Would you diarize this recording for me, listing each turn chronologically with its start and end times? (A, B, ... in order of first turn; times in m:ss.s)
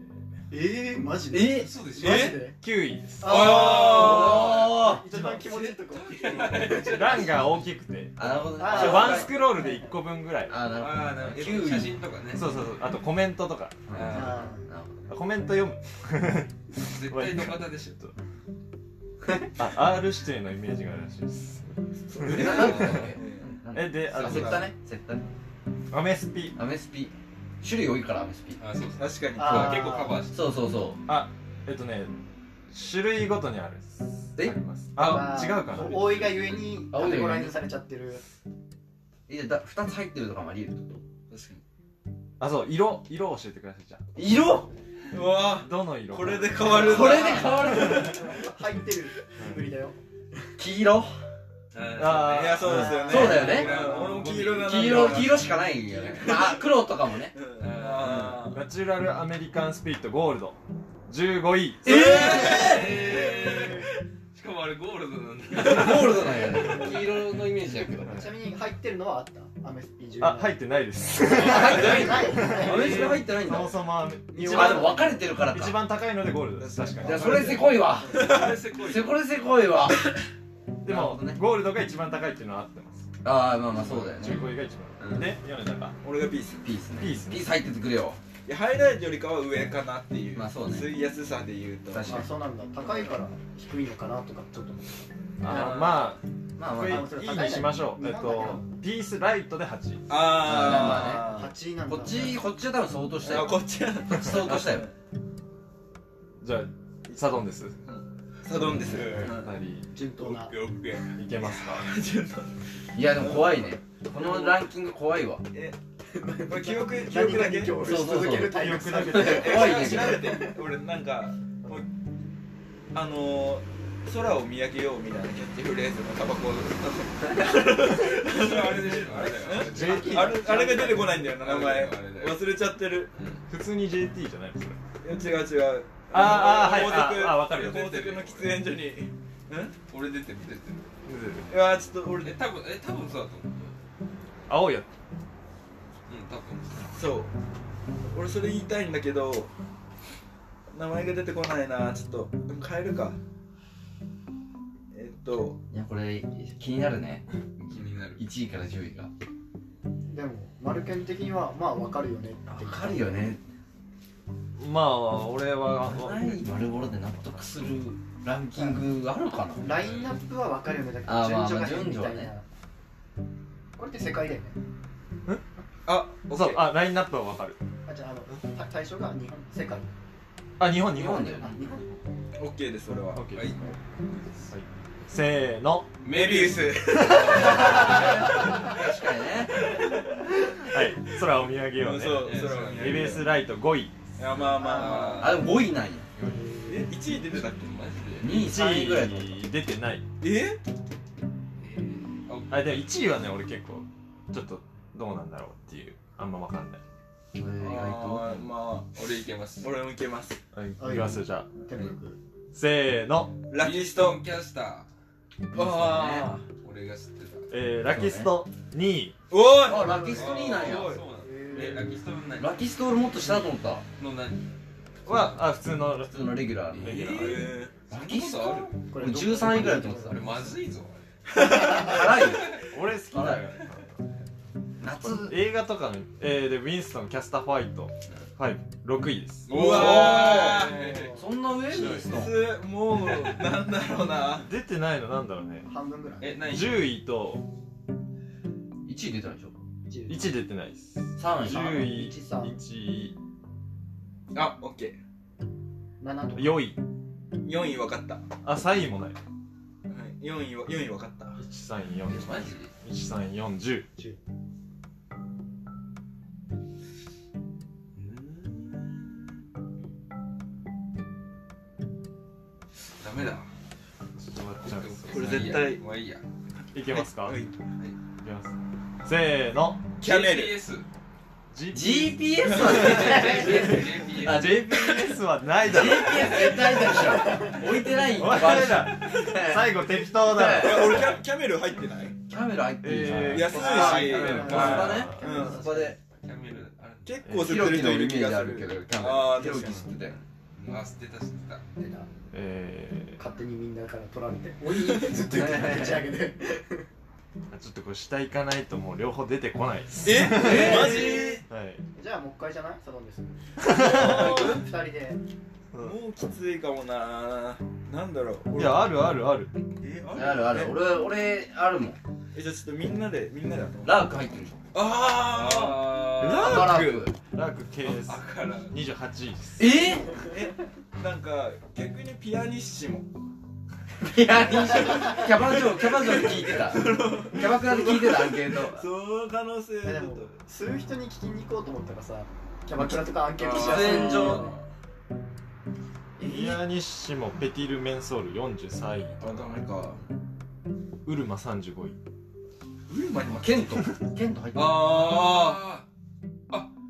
0:00.5-0:02.6 A
0:01.3-0:01.7 B
0:01.5-0:02.3 C
0:02.0-0:02.4 D
0:02.0-0:03.6 E
0:03.2-0:07.3 A
0:03.2-0:04.6 D
0:03.3-0:04.6 C
0:03.4-0:05.0 B
0:05.0-0:05.7 E
0:05.9-0:07.6 C
0:06.2-0:06.7 D
0:06.7-0:10.8 E
0:08.2-0:09.3 B
0:08.6-0:10.0 A
0:10.5-0:12.0 B
0:10.8-0:12.5 C
0:12.3-0:14.2 E
0:13.9-0:15.1 B
0:13.9-0:14.5 C
0:14.1-0:14.7 A
0:15.1-0:18.1 E
0:16.8-0:18.0 C
0:19.2-0:19.5 B
0:19.6-0:23.1 E
0:22.2-0:23.6 D
0:22.2-0:25.2 B
0:22.3-0:23.1 C
0:23.7-0:24.7 E
0:24.1-0:24.6 C
0:24.2-0:24.7 D
0:25.9-0:26.6 E
0:26.6-0:28.6 B
0:28.6-0:30.4 C
0:29.0-0:29.9 D
0:29.4-0:30.2 A
0:29.4-0:31.0 B
0:31.0-0:32.1 E
0:32.7-0:36.6 E
0:34.4-0:35.2 B
0:35.0-0:38.2 A
0:35.9-0:36.4 C
0:36.9-0:37.6 B
0:39.3-0:41.0 B
0:41.3-0:41.6 D
0:42.4-0:44.0 E
0:44.1-0:44.7 B
0:45.1-0:47.7 D
0:45.4-0:47.2 E
0:46.7-0:48.2 B
0:46.8-0:50.0 A
0:49.4-0:49.6 E
0:50.6-0:51.1 B
0:51.7-0:56.5 C
0:52.0-0:53.0 E
0:52.2-0:56.6 D
0:52.6-0:53.6 A
0:52.7-0:57.4 B
0:57.3-0:58.7 D
0:57.6-0:58.4 C
0:58.0-0:58.4 B
0:58.5-1:00.6 E
1:01.1-1:02.5 E
1:01.8-1:03.0 B
1:01.9-1:07.2 C
1:02.1-1:03.7 D
1:05.5-1:08.2 B
1:08.0-1:08.3 E
1:08.0-1:10.6 A
1:10.2-1:17.7 E
1:11.3-1:13.2 A
1:11.3-1:13.8 B
1:11.6-1:12.0 C
1:12.9-1:13.1 C
1:14.3-1:15.2 A
1:14.4-1:15.9 B
1:16.6-1:18.7 D
1:17.0-1:20.2 B
1:18.0-1:19.2 C
1:20.8-1:23.1 E
1:20.8-1:21.4 B
1:23.2-1:25.3 B
1:23.8-1:26.0 E
1:26.0-1:26.7 D
1:26.6-1:28.2 B
1:27.0-1:27.5 E
1:28.4-1:32.2 D
1:30.3-1:30.9 B
1:31.9-1:32.3 B
1:32.0-1:35.9 A
1:32.8-1:33.1 D
1:35.4-1:40.8 E
1:35.5-1:36.0 D
1:36.6-1:37.1 B
1:36.8-1:38.7 A
1:40.1-1:41.5 D
1:40.4-1:41.3 B
1:41.0-1:42.5 A
1:41.9-1:44.9 B
1:43.2-1:44.9 D
1:46.4-1:47.8 E
1:47.8-1:49.5 D
1:48.9-1:49.3 C
1:49.0-1:49.9 E
1:49.9-1:50.6 A
1:50.2-1:51.2 C
1:51.2-1:51.9 E
1:51.4-1:54.6 D
1:52.9-1:55.4 B
1:55.5-1:55.8 D
1:56.1-2:00.6 A
1:56.5-1:57.8 D
1:57.8-2:00.4 B
1:58.5-1:59.8 E
1:59.2-2:01.9 D
1:59.4-2:00.2 C
2:02.9-2:13.1 D
2:08.0-2:12.4 C
2:09.5-2:10.8 E
2:09.7-2:11.2 A
2:13.1-2:13.4 C
2:13.5-2:14.8 E
2:15.0-2:19.7 D
2:16.1-2:17.9 E
2:16.8-2:18.6 C
2:19.9-2:20.9 C
2:21.0-2:21.5 E
2:21.5-2:22.4 D
2:22.2-2:23.8 C
2:24.5-2:24.9 E
2:26.1-2:26.9 C
2:26.9-2:27.3 D
2:28.1-2:29.5 D
2:30.7-2:33.2 D
2:34.9-2:35.6 D
2:35.7-2:37.3 B
2:37.6-2:38.3 C
2:38.1-2:39.1 B
2:40.1-2:43.2 A
2:42.5-2:43.4 B
2:44.6-2:46.5 E
2:45.8-2:49.9 B
2:48.5-2:48.8 A
2:49.6-2:52.4 A
2:49.7-2:50.2 C
2:51.0-2:52.3 B
2:53.8-2:54.6 A
2:55.8-2:56.7 D
2:56.2-2:57.6 E
2:57.8-2:59.9 A
3:00.6-3:02.0 E
3:00.9-3:01.5 B
3:01.0-3:01.9 A
3:02.4-3:03.3 D
3:03.1-3:03.8 E
3:03.3-3:04.3 C
3:04.4-3:06.0 E
3:06.0-3:08.4 C
3:06.0-3:08.7 D
3:06.8-3:08.0 E
3:07.6-3:09.6 B
3:10.4-3:14.1 E
3:11.7-3:13.4 D
3:12.2-3:13.1 C
3:14.2-3:15.4 D
3:14.4-3:15.5 C
3:14.5-3:15.4 A
3:15.2-3:16.1 B
3:16.2-3:16.9 A
3:16.6-3:18.0 D
3:17.3-3:18.5 C
3:18.2-3:19.4 B
3:18.2-3:20.0 E
3:20.2-3:20.6 D
3:21.6-3:22.8 C
3:22.5-3:26.8 E
3:27.3-3:28.4 B
3:27.6-3:29.0 D
3:28.9-3:29.8 C
3:29.6-3:30.4 D
3:30.5-3:31.5 E
3:30.8-3:32.2 A
3:32.5-3:33.4 E
3:33.5-3:34.2 D
3:33.5-3:34.9 C
3:35.5-3:36.4 B
3:35.5-3:36.4 D
3:36.4-3:37.5 C
3:37.5-3:39.1 E
3:37.9-3:38.3 B
3:39.3-3:41.1 D
3:39.6-3:41.0 B
3:39.7-3:40.4 A
3:40.1-3:44.4 C
3:41.2-3:42.0 A
3:42.4-3:43.8 B
3:45.0-3:47.6 E
3:45.0-3:45.4 C
3:46.0-3:47.0 B
3:46.7-3:48.8 C
3:46.8-3:47.7 D
3:47.9-3:50.4 B
3:48.9-3:50.5 A
3:49.4-3:51.0 C
3:51.3-3:52.2 D
3:51.3-3:52.5 B
3:52.1-3:52.6 C
3:52.5-3:54.0 E
3:53.1-3:53.4 B
3:53.3-3:53.6 C
3:54.8-3:55.4 B
3:55.0-3:59.5 E
3:59.5-4:01.1 C
3:59.5-4:01.1 D
3:59.5-4:02.4 B
4:00.7-4:01.2 A
4:01.7-4:02.3 E
4:01.7-4:04.5 D
4:03.0-4:03.3 C
4:04.4-4:05.7 E
4:05.6-4:06.4 A
4:06.2-4:06.8 C
4:06.4-4:07.4 E
4:08.8-4:09.6 B
4:09.9-4:10.4 A
4:10.1-4:13.1 E
4:11.2-4:11.9 B
4:11.5-4:12.6 A
4:14.3-4:15.0 D
4:16.0-4:16.6 A
4:16.3-4:16.8 E
4:17.4-4:18.2 D
4:18.4-4:19.2 E
4:19.9-4:21.4 D
4:21.4-4:23.9 E
4:22.1-4:22.7 C
4:28.0-4:29.1 C
4:33.0-4:33.5 C
4:34.2-4:35.7 E
4:34.6-4:36.2 C
4:35.1-4:35.8 D
4:36.7-4:37.5 E
4:36.8-4:37.5 D
4:38.2-4:38.5 E
4:39.0-4:39.9 E
4:40.0-4:40.6 D
4:40.0-4:40.9 C
4:41.5-4:43.6 E
4:41.7-4:51.1 B
4:42.5-4:43.2 D
4:42.6-4:44.6 C
4:44.2-4:46.6 E
4:45.7-4:47.6 C
4:47.2-4:47.6 A
4:48.0-4:51.1 E
4:48.4-4:48.8 C
4:50.4-4:52.2 D
4:50.9-4:51.1 C
4:52.3-4:56.0 B
4:52.8-4:55.2 E
4:53.3-4:55.6 D
4:53.5-4:56.0 A
4:53.9-4:54.7 C
4:56.2-4:57.2 C
4:57.0-5:00.1 D
4:57.2-4:57.8 E
4:57.3-5:00.2 B
5:00.6-5:01.6 C
5:01.8-5:02.1 A
5:02.3-5:03.2 E
5:03.2-5:06.9 A
5:05.3-5:06.1 B
5:07.5-5:11.8 E
5:10.0-5:11.4 D
5:10.2-5:11.4 B
5:11.9-5:15.2 A
5:13.6-5:14.6 E
5:13.8-5:14.6 D
5:15.7-5:16.0 E
5:15.8-5:19.0 D
5:18.5-5:19.5 E
5:19.8-5:20.8 D
5:20.1-5:22.0 B
5:22.3-5:24.1 D
5:23.8-5:24.6 B
5:24.7-5:26.2 D
5:25.1-5:26.8 C
5:26.1-5:30.0 E
5:26.3-5:27.1 B
5:27.8-5:28.7 C
5:29.6-5:30.1 B
5:30.1-5:33.1 D
5:34.0-5:38.8 B
5:34.4-5:40.4 D
5:34.8-5:35.1 A
5:39.8-5:44.6 A
5:43.4-5:44.6 D
5:43.5-5:44.5 B
5:46.2-5:49.6 E
5:49.2-5:50.0 D
5:51.0-5:52.0 E
5:52.9-5:53.8 D
5:53.2-5:55.3 B
5:54.5-5:55.8 C
5:55.2-5:55.5 D